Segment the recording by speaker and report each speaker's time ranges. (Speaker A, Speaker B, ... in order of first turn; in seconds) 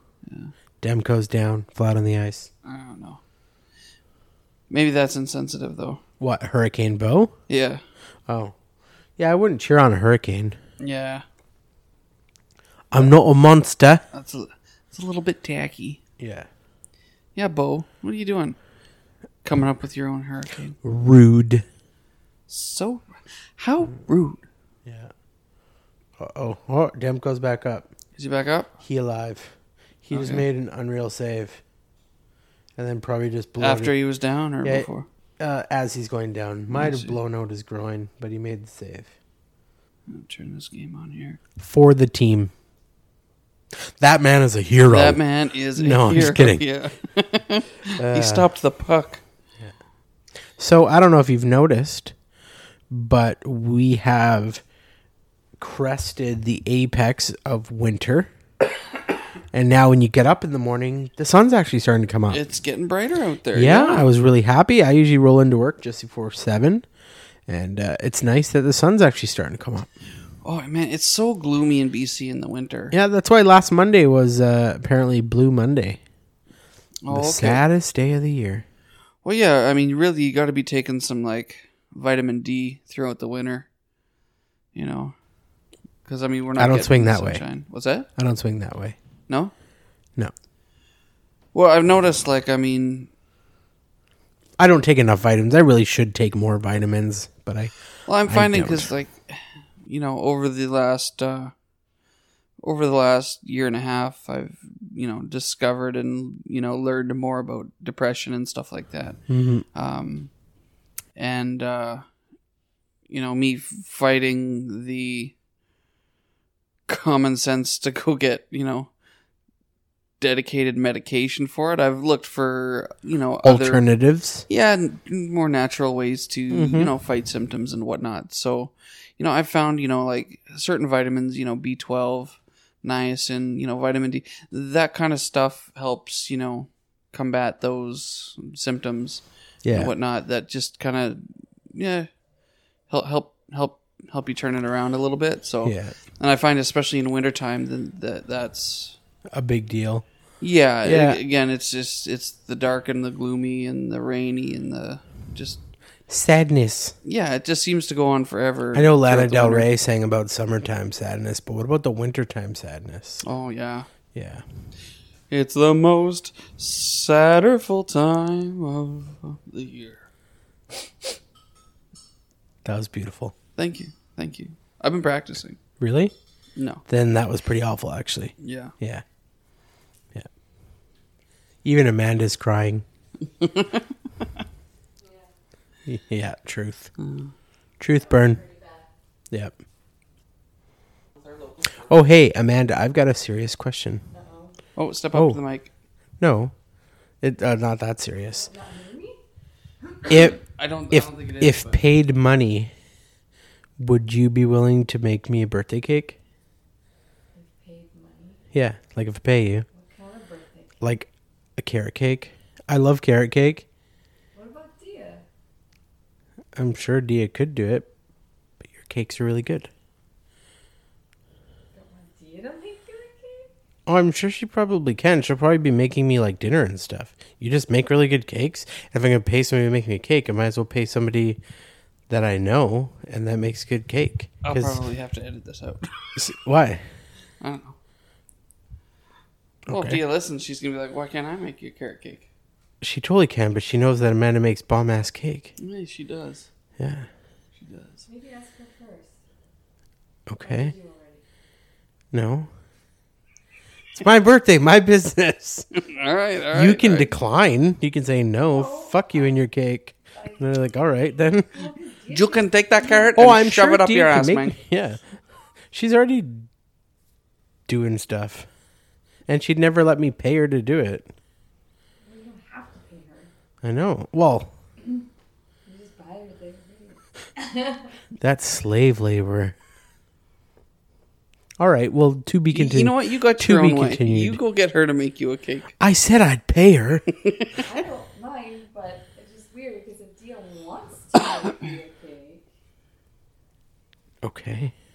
Speaker A: 0.3-0.5, 2.6-3.2, 4.7-6.0, 7.5-7.8, 10.8-11.2, 14.1-16.0, 17.4-18.6, 19.4-20.8, 22.5-24.5, 28.2-28.8, 30.1-30.4, 33.6-35.1, 36.7-37.2, 40.1-41.4, 44.9-49.2, 62.3-64.1, 70.4-72.9, 77.0-77.6, 79.2-83.7, 84.7-85.2, 86.0-88.1, 89.3-89.5, 91.5-93.1, 98.1-101.5, 102.6-109.2, 109.7-110.3, 111.2-112.0, 113.1-115.3, 116.9-118.9, 120.2-123.8, 124.5-142.1, 142.9-149.0, 150.4-155.6, 157.0-159.7, 163.2-163.9, 165.3-170.1, 173.6-175.6, 176.6-176.8, 178.4-178.7, 183.2-184.4, 187.0-187.3, 194.8-195.7, 200.2-201.8, 234.4-236.2, 237.4-237.8, 239.7-242.3, 245.6-246.5, 247.6-248.1, 255.8-257.1, 262.1-264.6, 282.5-285.7, 287.2-287.6
Speaker B: 0.8-2.5, 6.2-7.3, 8.3-8.6, 9.2-10.6, 12.9-14.0, 16.2-16.5, 20.8-21.6, 24.9-25.1, 26.2-27.9, 28.8-31.6, 32.8-33.9, 35.4-39.1, 41.6-42.5, 43.8-45.2, 45.8-46.6, 48.0-48.5, 50.6-52.1, 52.9-54.6, 55.6-58.3, 59.5-62.4, 63.5-66.8, 67.5-69.9, 72.9-76.0, 77.1-78.7, 86.6-87.5, 88.2-89.0, 94.6-97.7, 98.3-98.9, 109.3-109.7, 123.4-124.5, 126.5-126.9, 139.6-139.9, 145.6-145.9, 149.3-150.1, 150.8-151.2, 156.1-156.9, 158.7-163.2, 164.1-164.4, 172.6-173.3, 175.8-176.1, 176.9-179.0, 181.6-182.8, 185.9-186.9, 187.8-188.4, 191.8-194.1, 195.1-195.4, 196.2-196.5, 197.2-198.5, 200.1-200.4, 200.9-202.7, 203.8-206.2, 208.5-209.7, 210.8-213.7, 216.6-217.9, 218.7-219.7, 223.9-231.4, 232.1-234.8, 236.2-236.9, 239.7-240.0, 242.8-245.5, 246.8-247.1, 250.3-250.8, 252.1-252.5, 254.0-255.7, 256.5-261.7, 263.2-265.0, 265.7-266.5, 267.7-268.5, 269.3-271.1, 273.6-274.5, 278.2-279.6, 281.6-284.4, 285.8-287.1, 294.2-294.7
Speaker C: 187.9-188.9, 194.1-194.6, 198.3-199.2, 207.3-208.4, 209.7-210.8, 214.3-215.2, 221.7-223.5, 248.1-249.2, 250.4-251.2, 258.5-259.4, 260.2-260.4, 261.5-263.2, 272.0-273.3, 275.7-277.9, 287.6-292.4